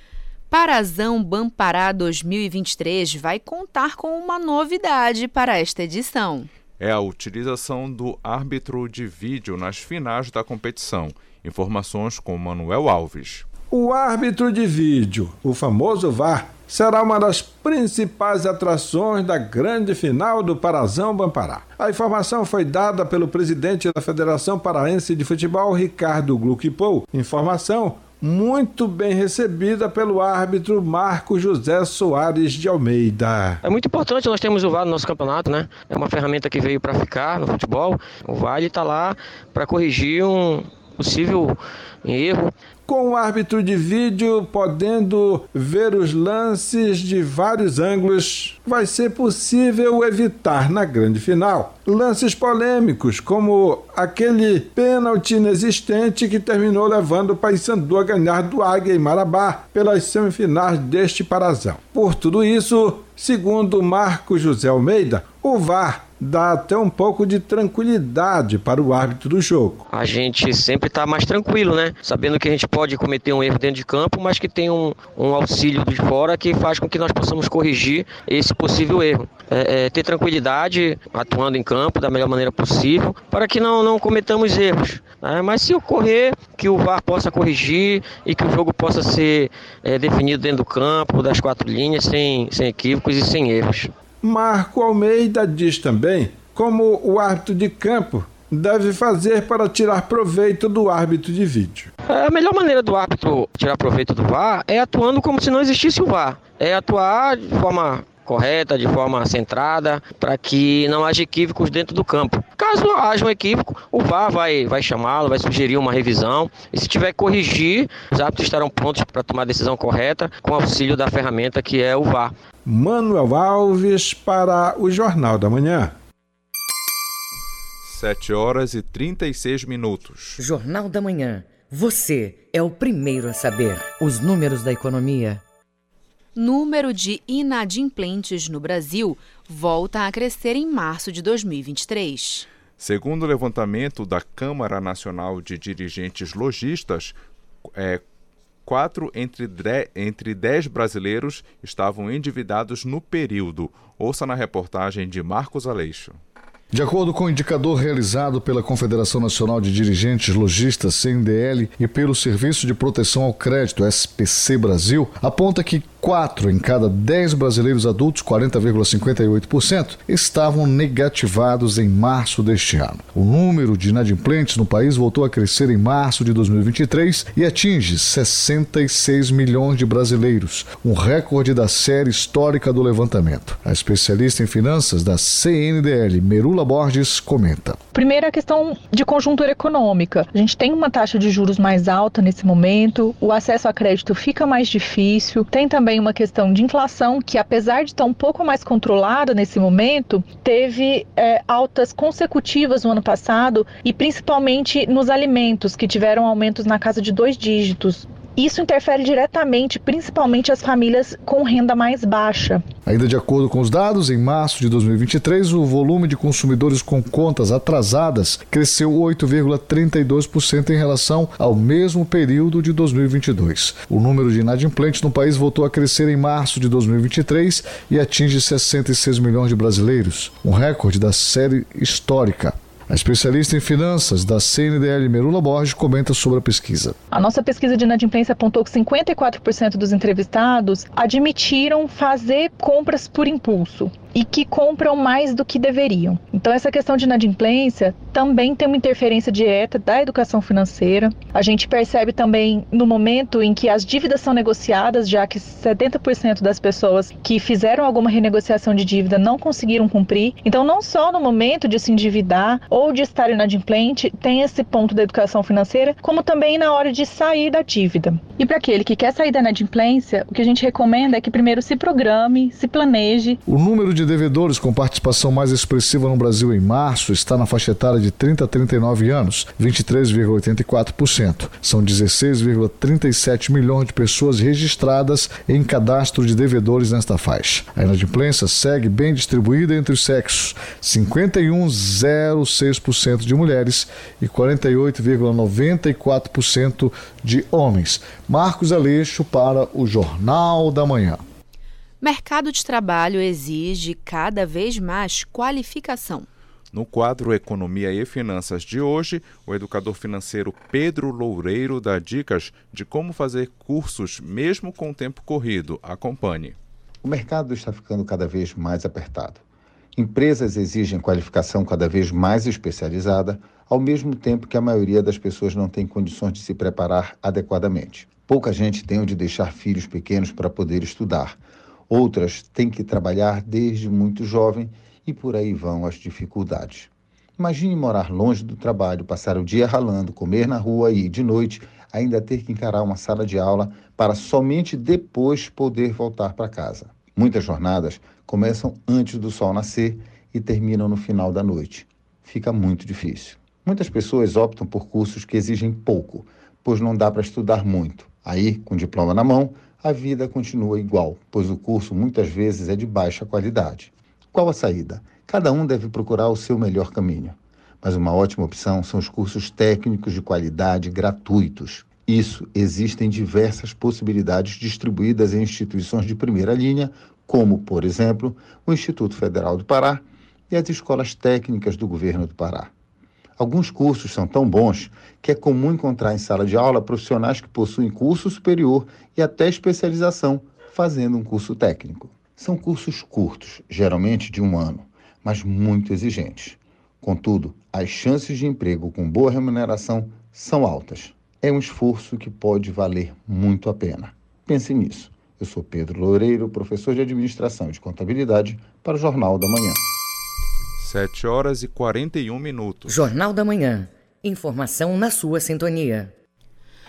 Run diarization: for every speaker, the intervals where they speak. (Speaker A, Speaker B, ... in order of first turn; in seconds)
Speaker A: 0.5-6.5, 136.4-142.5, 302.0-306.3
Speaker B: 6.8-13.5, 127.8-130.4, 142.8-147.2, 147.8-148.0, 148.7-156.2, 306.7-316.6, 410.8-413.1
Speaker C: 13.7-33.6, 42.9-69.8, 94.2-101.9, 122.7-126.0
Speaker D: 33.6-42.5, 69.9-93.9, 102.1-122.3
Speaker E: 130.4-135.4, 412.9-416.1
Speaker F: 156.7-187.8, 212.9-237.0, 273.5-301.2
Speaker G: 187.9-212.7, 237.1-273.4
Speaker H: 317.0-319.4, 319.9-382.7, 383.4-409.8